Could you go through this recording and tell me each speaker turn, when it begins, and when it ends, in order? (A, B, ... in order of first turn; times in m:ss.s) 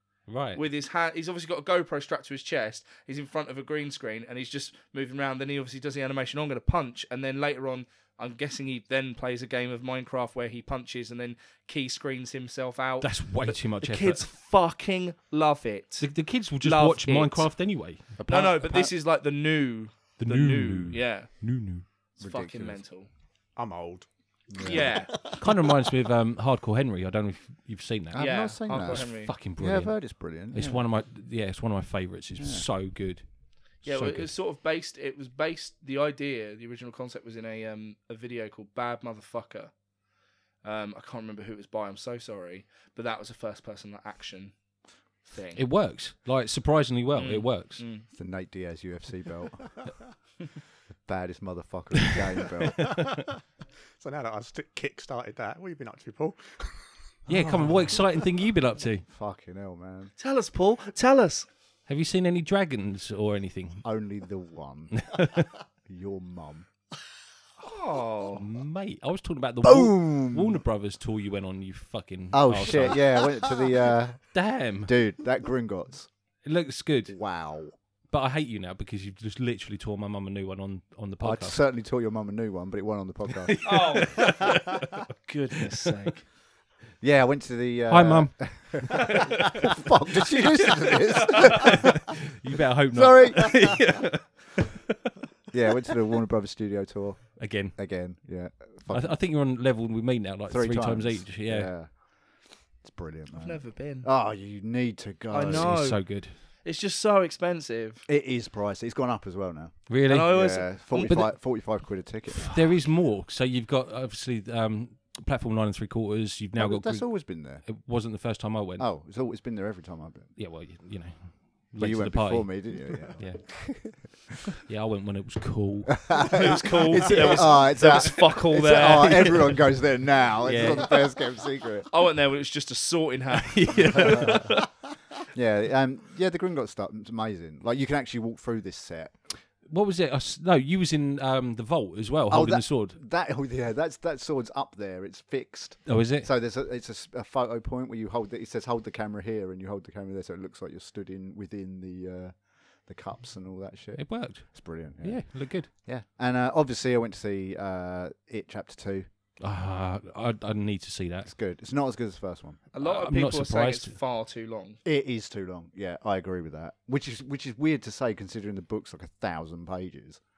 0:00.3-0:00.6 A
0:00.6-0:17.6 B
0:13.0-0:14.2 A
0:16.0-0:18.2 A
0:18.2-0:18.9 C
0:18.2-0:21.3 B
0:20.2-0:21.8 A
0:22.2-0:23.1 B
0:22.2-0:22.8 C
0:23.6-0:25.4 D
0:24.5-0:24.9 C
0:24.6-0:25.1 B
0:25.3-0:34.3 A
0:28.1-0:30.8 C
0:28.2-0:29.3 B
0:32.4-0:32.6 C
0:33.8-0:39.7 B
0:40.6-0:44.6 B
0:45.2-0:45.6 B
0:45.5-0:47.8 A
0:47.2-0:48.0 B
0:48.1-0:49.8 C
0:51.0-0:53.0 C
0:54.0-0:57.9 D
0:57.3-0:59.0 A
0:59.1-1:00.1 C
1:00.2-1:01.5 B
1:01.9-1:03.8 A
1:03.8-1:05.2 C
1:05.0-1:05.5 A
1:05.9-1:06.7 C
1:07.6-1:08.4 B
1:08.4-1:13.3 A
1:09.6-1:10.6 C
1:12.3-1:14.3 C
1:14.3-1:14.9 A
1:14.8-1:16.1 C
1:16.4-1:17.2 A
1:17.1-1:17.7 C
1:18.1-1:21.6 A
1:21.2-1:23.7 C
1:23.3-1:25.0 A
1:23.6-1:24.6 B
1:25.2-1:26.2 B
1:27.0-1:32.0 C
1:27.9-1:29.2 A
1:29.1-1:29.6 B
1:31.4-1:34.6 A
1:32.9-1:34.0 C
1:35.5-1:39.2 C
1:37.4-1:37.8 A
1:38.9-1:41.7 A
1:40.5-1:42.0 C
1:42.8-1:45.9 C
1:43.4-1:44.0 B
1:45.3-1:48.0 B
1:45.5-1:46.4 A
1:48.1-1:52.6 C
1:49.9-1:58.9 A
1:50.1-1:51.1 B
1:56.6-1:57.6 C
1:58.8-2:00.3 C
2:00.4-2:04.1 A
2:01.8-2:04.1 C
2:04.6-2:06.5 A
2:06.0-2:11.9 C
2:06.3-2:09.6 B
2:10.4-2:11.0 A
2:11.9-2:14.6 B
2:13.3-2:14.6 A
2:14.1-2:14.4 C
2:15.3-2:19.2 C
2:19.6-2:23.0 A
2:22.3-2:39.1 C
2:25.8-2:26.3 A
2:34.0-2:35.7 A
2:39.4-2:41.3 A
2:41.2-2:42.6 C
2:42.7-2:44.8 B
2:42.8-2:44.0 A
2:44.8-2:50.2 C